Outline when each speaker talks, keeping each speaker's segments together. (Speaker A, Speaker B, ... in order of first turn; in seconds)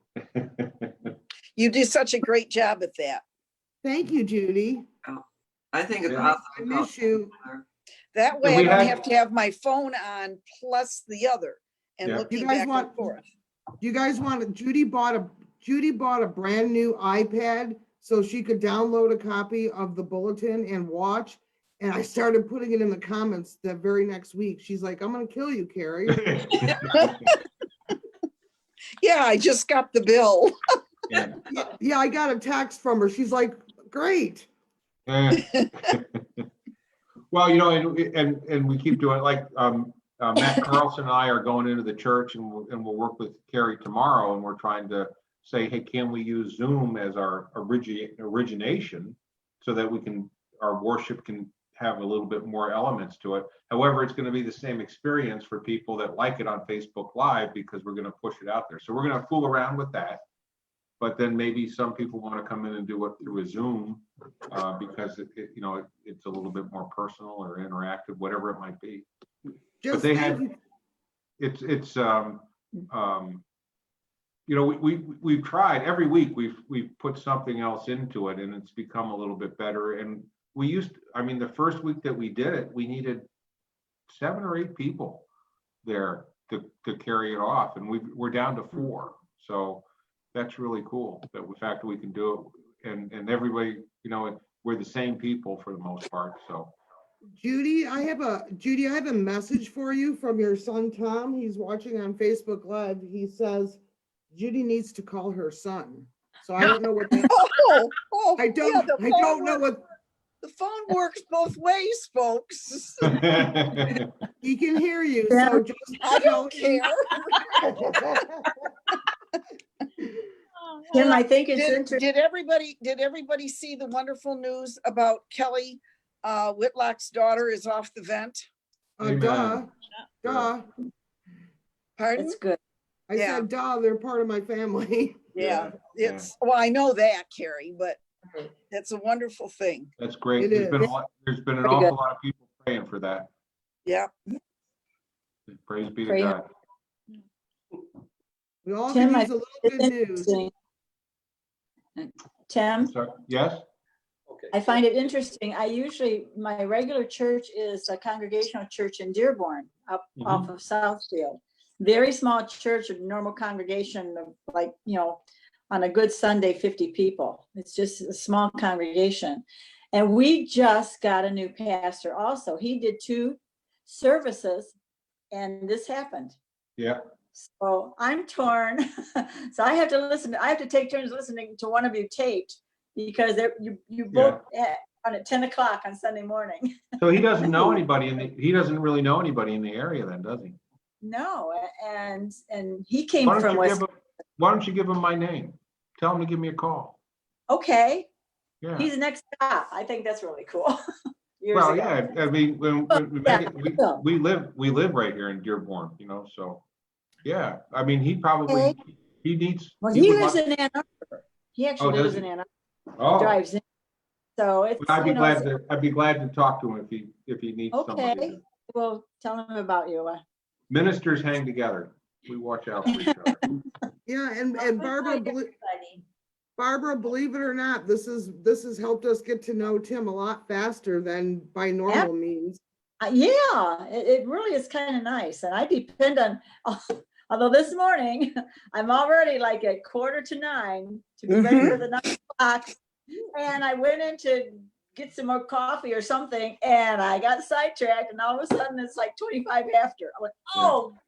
Speaker A: 0.3-1.1, 6.1-6.4, 8.4-8.9, 26.1-27.3, 31.1-31.4, 35.1-36.5, 37.3-60.2, 61.0-69.1, 69.9-70.5, 71.4-73.4, 74.5-83.3, 84.1-85.3, 85.8-96.7, 113.0-114.1, 129.0-129.7, 135.4-136.3, 140.0-143.3, 145.5-146.5, 152.8-153.6, 160.2-160.5, 184.1-184.4, 187.0-190.6, 193.2-197.0, 198.6-198.9, 201.5-206.6, 207.2-210.4, 211.8-212.2, 213.0-213.4, 214.8-218.4, 220.7-223.6
Speaker B: 1.6-3.2, 8.1-13.2, 26.9-27.1, 29.0-30.6, 107.3-109.6, 110.4-113.2, 116.0-117.7, 120.9-128.4, 132.0-132.4, 133.2-133.5, 135.3-138.0, 138.7-139.9, 143.9-144.1, 241.3-241.8
Speaker C: 3.8-4.9, 6.2-7.3, 12.3-13.0, 13.8-26.2, 31.5-34.5, 69.8-70.5, 97.4-103.8, 104.3-107.3, 108.4-109.8, 114.4-116.9, 117.6-118.5, 129.0-129.7, 130.2-130.7, 133.1-135.3, 140.4-140.9, 148.7-150.4, 224.1-225.5, 226.6-232.6
Speaker D: 5.0-7.6
Speaker E: 115.3-115.6, 120.9-122.0, 132.2-132.6, 141.6-141.9, 146.1-146.4, 148.9-150.5, 152.0-152.9, 154.5-174.7, 175.3-176.4, 177.3-186.7, 187.4-187.8, 191.0-193.8, 197.5-198.1, 198.8-200.8, 201.4-202.3, 202.9-204.0, 208.5-208.8, 209.8-212.5, 213.2-213.6, 214.4-215.5, 217.7-220.2, 224.6-226.0, 233.0-242.7, 243.3-251.0